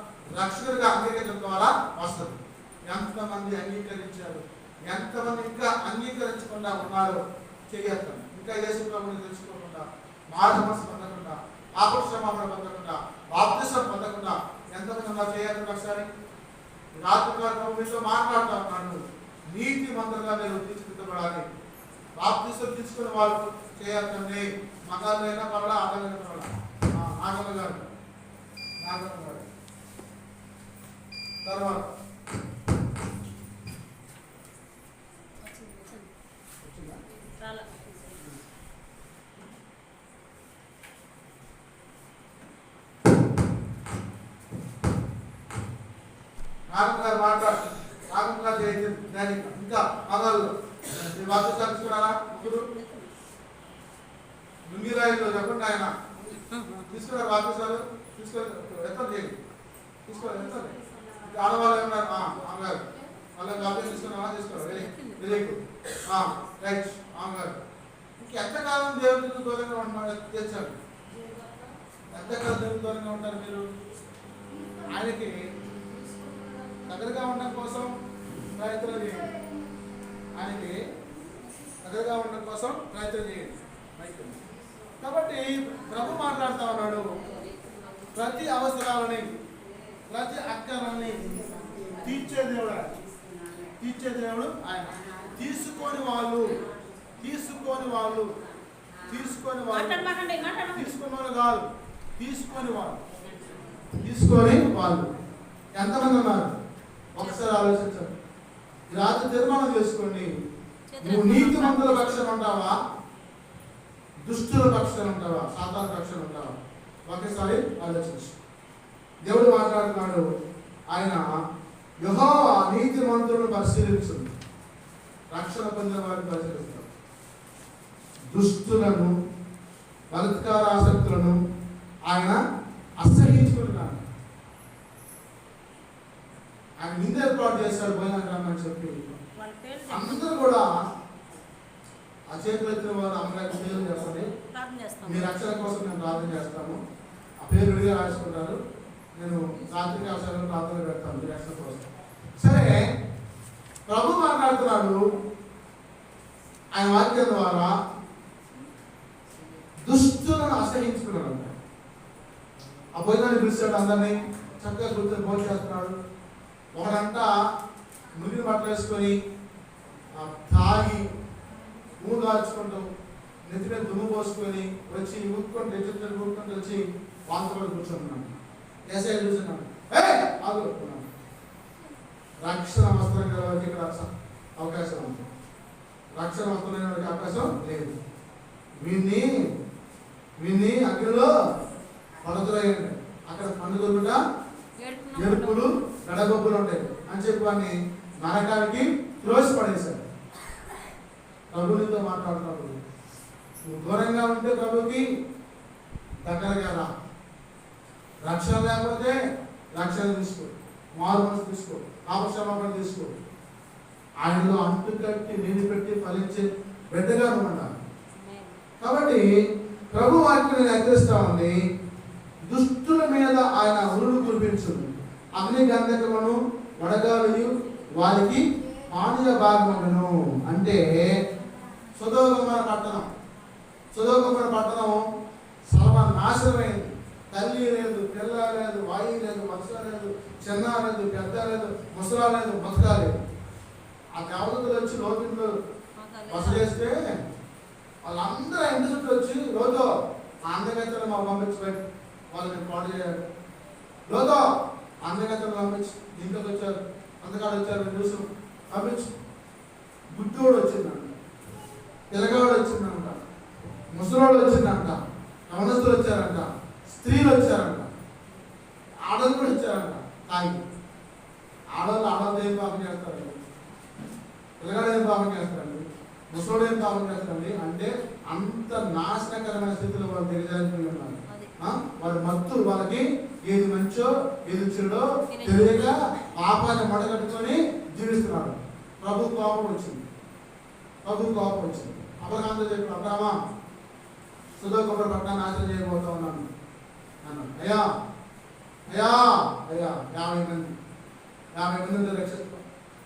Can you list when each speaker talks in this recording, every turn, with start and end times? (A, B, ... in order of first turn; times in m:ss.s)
0:00.3-0:16.1 A
0:17.0-0:19.0 A
0:19.5-0:21.4 A
0:22.2-0:27.9 A
0:28.8-0:29.5 A
0:31.4-0:31.9 A
0:35.4-0:36.1 B
0:36.6-0:37.0 A
0:37.2-0:38.3 B
0:46.7-0:47.6 A
0:48.1-0:52.6 A
0:52.4-0:53.1 B
0:54.7-0:55.9 A
0:56.1-0:57.0 B
0:56.9-0:59.3 A
1:00.0-1:07.6 A
1:03.7-1:05.6 B
1:08.2-1:10.8 A
1:12.1-1:13.7 A
1:14.9-1:15.4 A
1:16.8-1:17.9 A
1:18.6-1:19.3 A
1:20.4-1:20.8 A
1:21.8-1:24.4 A
1:25.0-1:27.2 A
1:27.3-1:28.1 B
1:28.1-1:29.3 A
1:30.1-1:33.0 A
1:33.8-1:36.6 A
1:37.2-1:38.3 A
1:39.1-1:40.1 A
1:39.7-1:41.0 B
1:40.7-1:43.0 A
1:43.2-1:43.8 B
1:43.9-1:45.1 A
1:45.7-1:46.5 A
1:47.1-1:48.1 A
1:47.2-1:47.6 B
1:48.9-1:50.3 A
1:50.9-1:52.3 B
1:51.0-1:52.8 A
1:54.2-1:56.5 A
1:57.1-1:58.3 A
1:59.2-2:00.2 A
2:00.9-2:01.2 A
2:02.0-2:04.3 A
2:05.3-2:06.9 A
2:08.3-2:09.1 A
2:10.1-2:11.4 A
2:12.1-2:12.4 A
2:13.0-2:14.0 A
2:16.8-2:19.1 A
2:19.4-2:20.5 B
2:19.9-2:20.7 A
2:22.3-2:24.3 A
2:24.4-2:25.4 B
2:25.0-2:26.8 A
2:27.4-2:28.6 A
2:29.2-2:31.9 A
2:32.4-2:32.8 A
2:33.9-2:35.0 A
2:36.7-2:37.7 A
2:39.8-2:41.5 A
2:42.9-2:45.9 A
2:46.7-2:47.3 A
2:48.1-2:49.1 A
2:50.1-2:51.1 A
2:52.0-2:52.9 A
2:53.4-2:58.3 A
2:58.9-3:01.1 A
3:02.4-3:05.2 A
3:06.2-3:08.0 A
3:08.8-3:09.4 A
3:10.4-3:11.3 A
3:12.2-3:14.2 A
3:14.8-3:15.7 B
3:15.1-3:20.0 A
3:21.5-3:22.8 A
3:23.6-3:25.0 A
3:26.2-3:26.9 A
3:28.2-3:29.2 A
3:29.7-3:33.1 A
3:34.2-3:37.7 A
3:38.1-3:38.6 B
3:38.8-3:39.2 A
3:39.9-3:41.5 A
3:42.5-3:50.8 A
3:52.0-3:53.1 A
3:53.9-3:55.0 A
3:55.7-4:03.1 A
4:04.1-4:05.5 A
4:06.0-4:06.9 B
4:06.3-4:07.2 A
4:08.0-4:09.9 A
4:10.4-4:13.2 A
4:14.1-4:14.4 A
4:15.0-4:19.1 A
4:20.1-4:21.2 A
4:22.1-4:23.2 A
4:23.9-4:27.9 A
4:29.0-4:30.6 A
4:31.8-4:33.4 A
4:34.6-4:50.0 A
4:41.3-4:41.5 B
4:45.3-4:46.0 B
4:51.0-4:53.4 A
4:54.6-4:56.5 A
4:57.2-4:57.8 A
4:58.9-5:00.7 A
5:01.6-5:02.6 A